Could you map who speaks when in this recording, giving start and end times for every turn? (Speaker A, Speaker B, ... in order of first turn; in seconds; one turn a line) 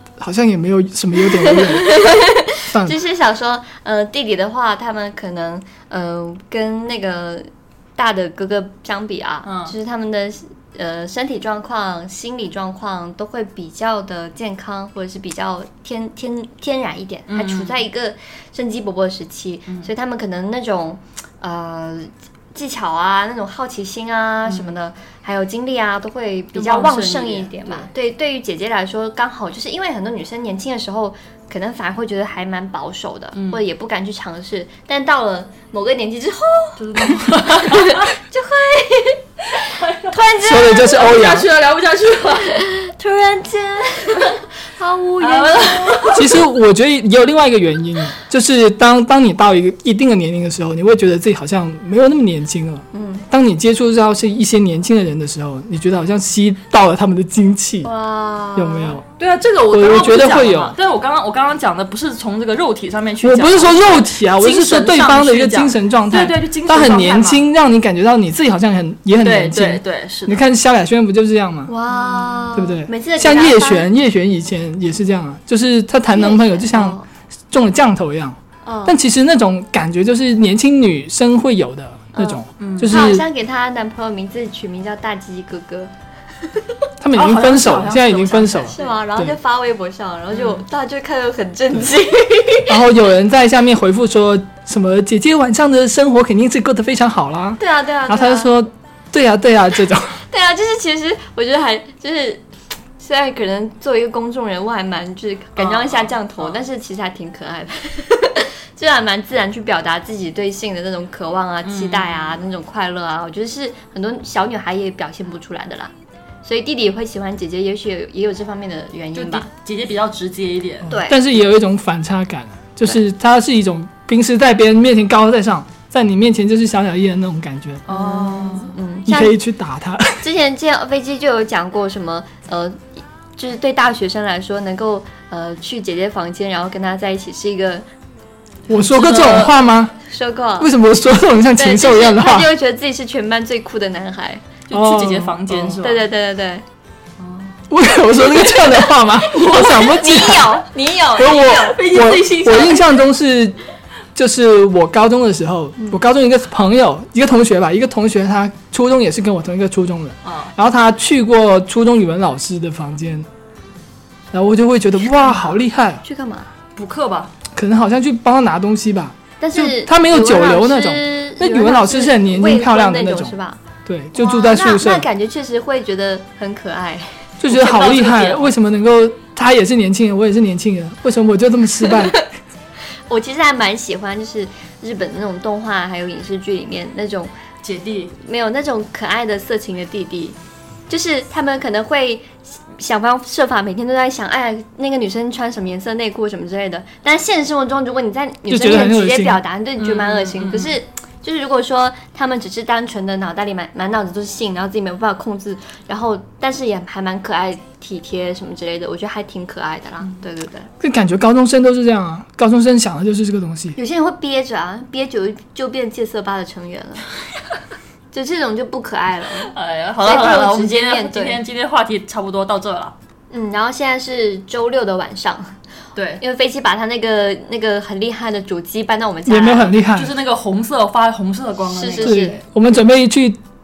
Speaker A: 0.2-2.0
Speaker B: 1.4-41.2
Speaker C: 9.4-9.7
Speaker C: 17.3-17.8
Speaker C: 24.5-24.7
Speaker C: 26.5-27.9
Speaker C: 33.3-33.6
Speaker C: 36.8-38.0
Speaker C: 39.6-42.6
Speaker A: 40.4-41.5
Speaker B: 42.5-46.2
Speaker C: 45.2-46.4
Speaker A: 46.1-57.9
Speaker B: 52.9-53.3
Speaker B: 57.8-59.0
Speaker A: 58.5-59.0
Speaker C: 59.2-67.5
Speaker A: 59.7-60.8
Speaker A: 63.2-71.7
Speaker C: 69.2-70.5
Speaker B: 71.7-73.9
Speaker C: 71.9-72.6
Speaker A: 72.5-77.0
Speaker B: 76.1-77.1
Speaker A: 77.5-83.2
Speaker B: 78.7-79.0
Speaker B: 82.1-85.9
Speaker C: 82.6-83.0
Speaker A: 87.0-89.3
Speaker C: 87.1-89.0
Speaker B: 88.5-92.8
Speaker C: 90.3-90.6
Speaker A: 92.7-100.2
Speaker B: 97.6-98.5
Speaker B: 100.3-102.4
Speaker B: 103.0-115.9
Speaker C: 105.6-106.6
Speaker C: 111.6-112.4
Speaker B: 116.4-119.5
Speaker C: 119.2-121.0
Speaker B: 120.9-121.2
Speaker A: 120.9-127.8
Speaker C: 127.9-128.8
Speaker B: 127.9-129.4
Speaker A: 129.1-130.2
Speaker B: 130.2-137.8
Speaker A: 138.7-139.9
Speaker C: 138.8-139.6
Speaker B: 140.0-140.7
Speaker A: 140.6-142.5
Speaker B: 141.6-144.5
Speaker C: 144.7-146.1
Speaker A: 144.7-145.8
Speaker B: 145.8-146.7
Speaker C: 147.2-147.6
Speaker A: 147.7-153.6
Speaker B: 149.3-151.8
Speaker C: 149.4-149.7
Speaker C: 151.3-152.9
Speaker A: 154.2-163.3
Speaker B: 155.8-156.0
Speaker C: 160.2-160.5
Speaker A: 164.3-166.0
Speaker B: 165.2-166.5
Speaker C: 166.8-167.3
Speaker A: 167.6-173.3
Speaker B: 169.4-173.6
Speaker A: 173.9-175.1
Speaker B: 174.2-177.2
Speaker A: 177.4-182.2
Speaker C: 177.5-178.6
Speaker B: 183.1-187.3
Speaker C: 187.6-188.1
Speaker B: 188.2-190.4
Speaker B: 190.9-210.7
Speaker A: 198.5-199.4
Speaker C: 199.8-200.8
Speaker A: 210.8-213.8
Speaker B: 213.8-217.1
Speaker B: 218.1-221.4
Speaker C: 219.4-222.9
Speaker B: 223.3-225.6
Speaker C: 226.0-226.2
Speaker B: 226.2-229.8
Speaker A: 229.3-230.2
Speaker C: 229.9-232.4
Speaker B: 231.7-232.4
Speaker A: 232.0-233.4